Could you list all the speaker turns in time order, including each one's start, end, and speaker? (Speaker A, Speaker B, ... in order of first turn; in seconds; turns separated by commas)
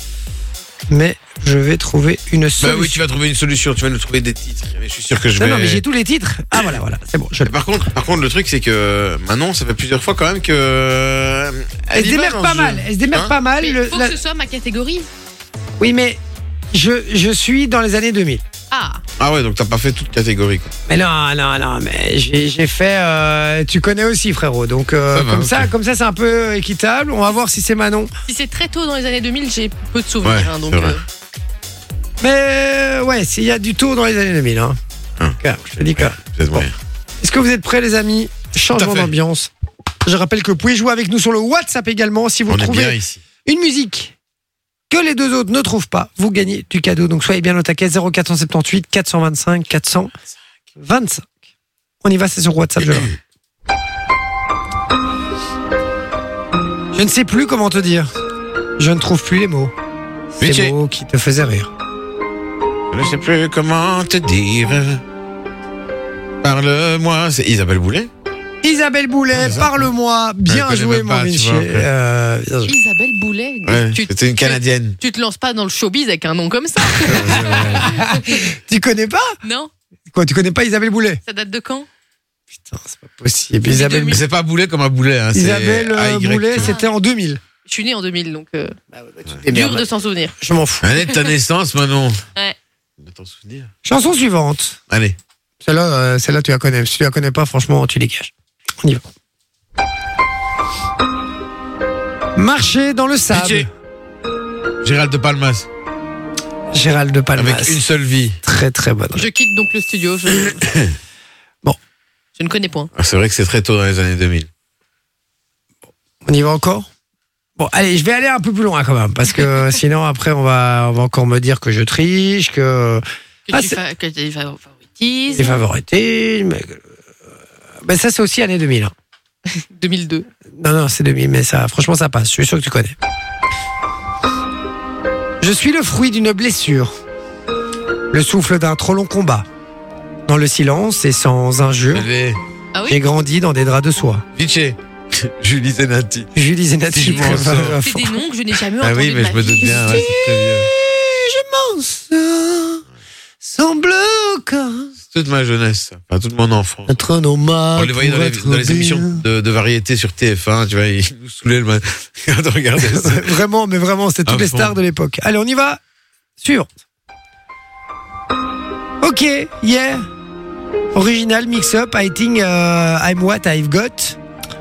Speaker A: 0.9-3.0, Speaker B: 2.6-5.8, Speaker A: 5.3-7.5, Speaker B: 7.4-13.3, Speaker A: 11.9-14.2, Speaker C: 13.6-15.1, Speaker A: 15.8-16.2, Speaker A: 16.7-18.4, Speaker C: 18.7-19.0, Speaker B: 19.2-20.7, Speaker A: 20.9-28.1, Speaker B: 25.1-25.7, Speaker C: 28.2-31.0, Speaker B: 30.2-31.0, Speaker A: 32.2-34.8, Speaker A: 35.4-36.7, Speaker B: 36.0-36.7, Speaker A: 37.2-39.5, Speaker B: 38.7-39.1, Speaker A: 40.0-44.1, Speaker B: 42.5-43.2, Speaker A: 44.9-50.1, Speaker A: 50.8-51.3, Speaker A: 52.0-53.1, Speaker B: 52.8-53.2, Speaker A: 56.9-58.1, Speaker A: 58.8-59.7, Speaker A: 60.3-61.7, Speaker B: 60.4-60.7, Speaker B: 62.9-65.0, Speaker B: 66.4-68.1, Speaker A: 68.6-72.7, Speaker B: 69.3-69.8, Speaker B: 70.5-71.9, Speaker C: 72.6-78.4, Speaker B: 73.7-75.0, Speaker B: 77.0-77.9, Speaker A: 77.1-79.3, Speaker C: 79.4-79.7, Speaker A: 80.1-81.2, Speaker C: 81.2-81.9, Speaker A: 82.5-84.2, Speaker C: 83.7-84.2, Speaker B: 84.1-86.7, Speaker A: 85.3-87.4, Speaker C: 86.5-86.9, Speaker C: 87.7-88.8, Speaker A: 88.9-89.9, Speaker C: 89.5-90.3, Speaker A: 90.4-90.9, Speaker B: 90.8-92.2, Speaker B: 93.0-93.7, Speaker A: 93.8-94.8, Speaker B: 94.9-95.2, Speaker A: 95.6-99.0, Speaker A: 102.3-103.7, Speaker B: 103.3-103.7, Speaker B: 104.8-105.7, Speaker A: 106.7-107.8, Speaker B: 107.3-108.4, Speaker A: 108.4-109.3, Speaker C: 109.1-110.7, Speaker B: 110.5-110.9, Speaker C: 112.4-112.9, Speaker B: 113.0-114.5, Speaker A: 116.2-116.9, Speaker A: 117.6-123.8, Speaker C: 123.5-125.6, Speaker A: 125.3-126.8, Speaker A: 127.8-128.9, Speaker C: 129.5-130.3, Speaker A: 130.6-132.9, Speaker A: 135.4-136.9, Speaker A: 138.1-139.5, Speaker A: 140.3-142.1, Speaker B: 141.9-142.4, Speaker C: 142.7-143.0, Speaker A: 142.9-144.2, Speaker B: 144.3-146.3, Speaker A: 146.3-148.2, Speaker B: 146.9-147.8, Speaker C: 147.8-150.1, Speaker B: 148.8-150.7, Speaker A: 149.6-152.8, Speaker A: 153.4-154.9, Speaker B: 155.1-157.0, Speaker A: 156.9-159.2, Speaker B: 157.8-163.4, Speaker A: 162.8-165.8, Speaker B: 164.2-164.8, Speaker A: 166.4-166.7, Speaker A: 169.0-170.1, Speaker A: 170.9-174.2